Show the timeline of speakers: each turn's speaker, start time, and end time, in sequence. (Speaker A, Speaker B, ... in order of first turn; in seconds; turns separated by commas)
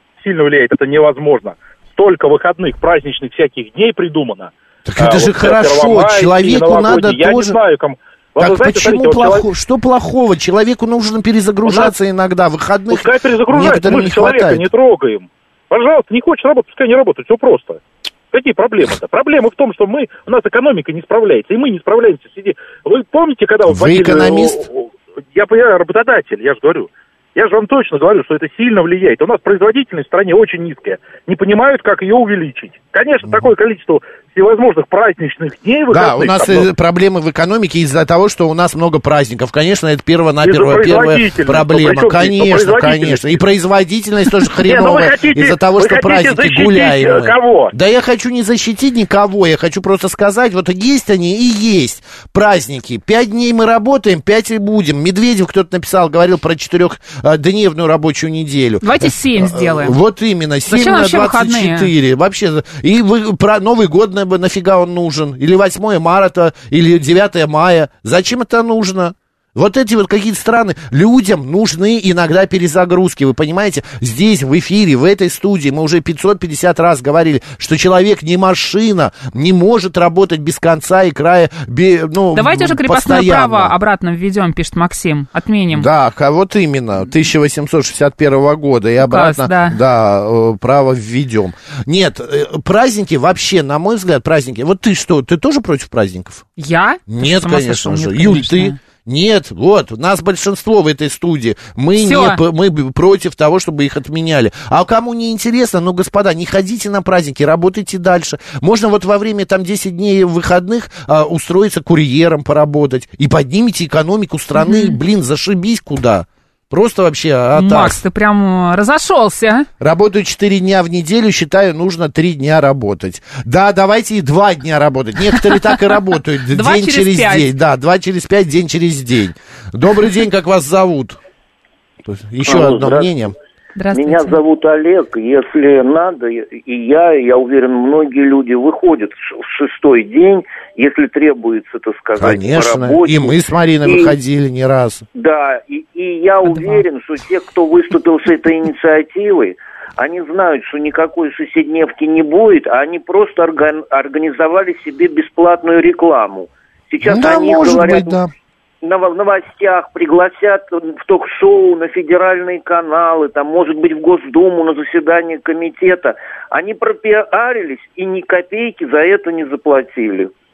Speaker A: 0.2-9.4, Speaker B: 4.9-7.6, Speaker B: 8.4-14.7, Speaker A: 11.7-11.9, Speaker A: 12.9-36.7, Speaker B: 23.7-24.6, Speaker B: 35.9-83.8, Speaker A: 40.4-43.4, Speaker A: 44.5-47.7, Speaker C: 58.8-60.0, Speaker C: 60.7-61.9, Speaker C: 82.3-85.9, Speaker B: 85.7-96.5, Speaker C: 89.0-89.8, Speaker C: 96.6-98.8, Speaker B: 97.1-118.0, Speaker C: 102.0-102.4, Speaker C: 114.6-115.0, Speaker C: 117.5-119.7, Speaker B: 119.8-131.2, Speaker C: 125.3-125.7, Speaker C: 126.5-127.5, Speaker B: 132.1-133.3, Speaker D: 132.4-133.1, Speaker C: 133.8-134.4, Speaker D: 133.9-144.2, Speaker B: 142.2-145.1, Speaker D: 145.1-158.2, Speaker C: 146.4-146.8, Speaker B: 157.0-158.3, Speaker D: 158.8-170.3